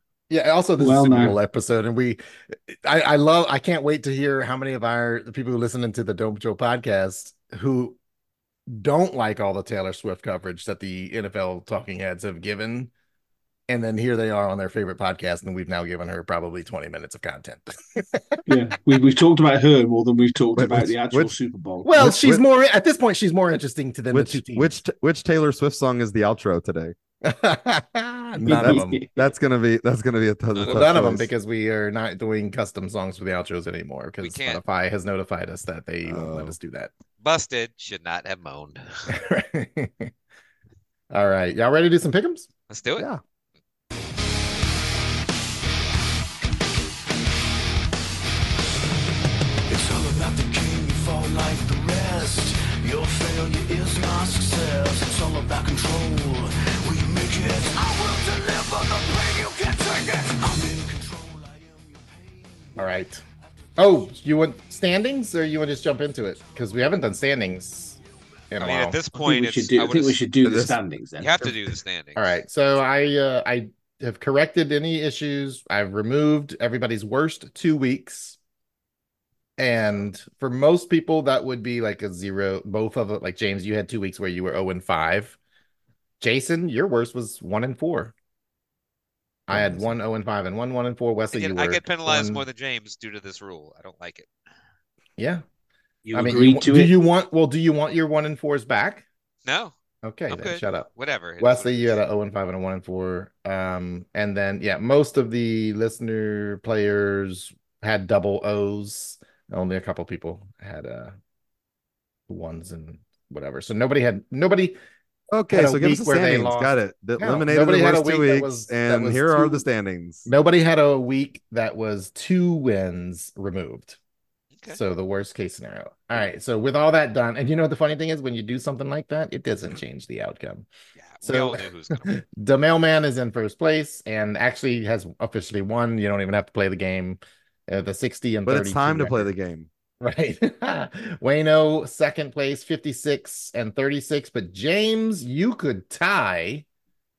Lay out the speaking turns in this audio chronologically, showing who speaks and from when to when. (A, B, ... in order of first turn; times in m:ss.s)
0:00.3-0:08.0 A
0:00.8-0:01.4 B
0:08.7-0:12.9 A
0:13.7-0:18.4 A
0:18.5-0:21.9 B
0:20.6-0:21.3 C
0:21.8-0:24.8 A
0:22.0-0:22.4 C
0:24.1-0:26.9 C
0:27.2-0:29.0 A
0:28.5-0:29.1 B
0:28.5-0:31.3 C
0:30.6-0:31.0 D
0:30.7-0:36.9 A
0:34.2-0:34.6 D
0:36.1-0:36.6 C
0:37.2-0:38.8 D
0:39.1-0:40.1 A
0:41.1-0:42.5 A
0:42.7-0:43.1 D
0:49.7-1:02.7 E
1:02.8-1:03.2 A
1:03.8-1:08.0 A
1:08.5-1:09.0 A
1:08.6-1:10.2 D
1:09.2-1:11.4 B
1:10.4-1:10.8 C
1:11.2-1:12.3 D
1:12.2-1:18.4 A
1:19.6-1:25.4 A
1:26.2-1:28.1 A
1:29.5-1:32.4 A
1:29.5-1:30.0 C
1:31.3-1:34.3 D
1:35.2-1:35.4 A
1:36.0-1:36.9 B
1:36.1-1:39.0 A
1:39.4-1:39.7 D
1:40.0-1:51.2 A
1:40.3-1:42.0 D
1:52.3-1:54.8 A
1:55.3-2:00.3 C
1:55.5-1:59.6 A
2:00.3-2:04.0 A
2:04.7-2:10.7 A
2:11.0-2:12.1 D
2:11.2-2:19.3 A
2:18.5-2:19.7 C
2:20.0-2:26.6 A